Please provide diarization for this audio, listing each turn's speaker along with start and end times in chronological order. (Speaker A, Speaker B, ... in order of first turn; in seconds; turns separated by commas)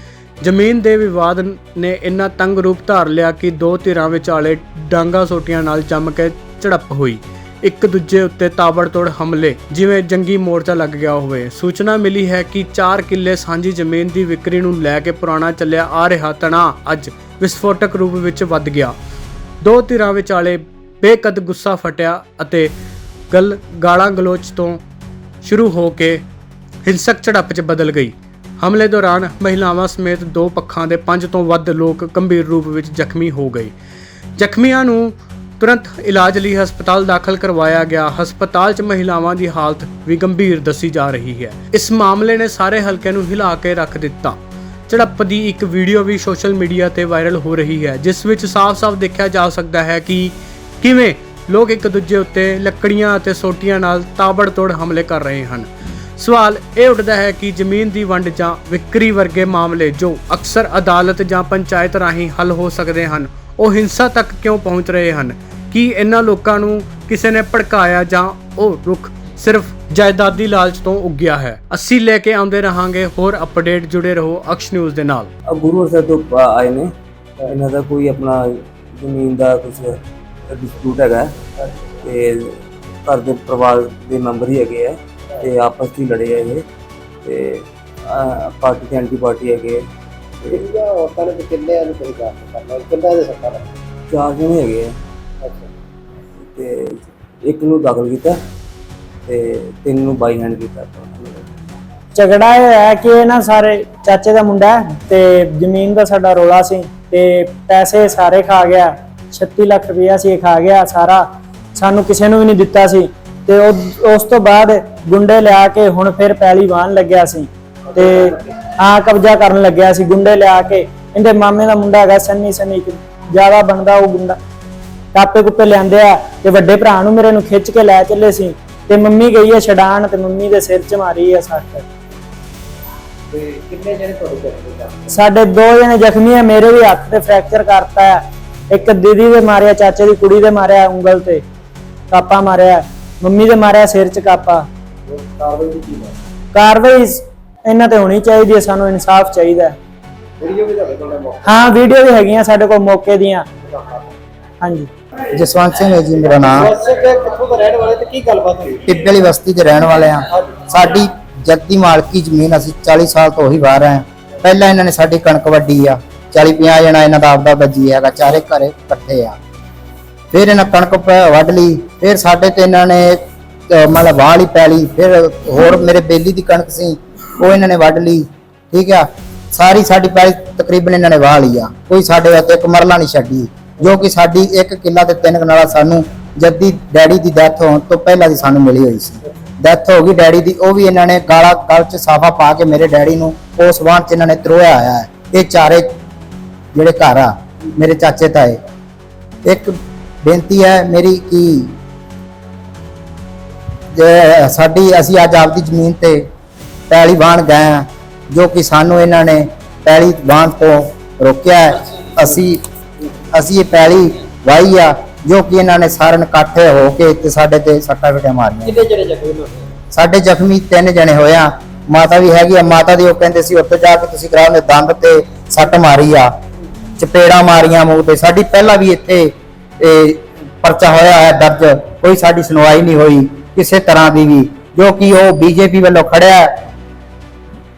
Speaker A: 0.4-18.9, Speaker A: 19.6-22.7, Speaker A: 23.3-24.8, Speaker A: 25.4-26.2, Speaker A: 26.8-33.7, Speaker A: 34.4-44.4, Speaker A: 44.9-75.3, Speaker B: 75.5-81.3, Speaker B: 82.0-82.5, Speaker B: 83.1-86.7, Speaker B: 87.2-89.8, Speaker C: 90.6-93.7, Speaker B: 94.1-94.9, Speaker B: 96.4-98.4, Speaker B: 99.3-101.5, Speaker D: 102.2-124.4, Speaker D: 125.1-131.9, Speaker C: 133.3-135.1, Speaker D: 135.1-141.4, Speaker D: 142.1-144.7, Speaker C: 145.1-146.1, Speaker D: 146.5-149.8, Speaker C: 150.4-151.4, Speaker D: 151.4-153.5, Speaker C: 153.8-154.1, Speaker D: 154.6-154.9, Speaker E: 155.3-156.7, Speaker C: 156.5-158.8, Speaker E: 158.9-169.4, Speaker E: 170.3-195.9, Speaker E: 196.7-198.6, Speaker E: 199.4-201.8, Speaker E: 203.9-206.2, Speaker E: 206.9-212.6, Speaker E: 213.3-218.9, Speaker C: 219.0-219.5, Speaker E: 219.9-226.3, Speaker E: 227.0-236.5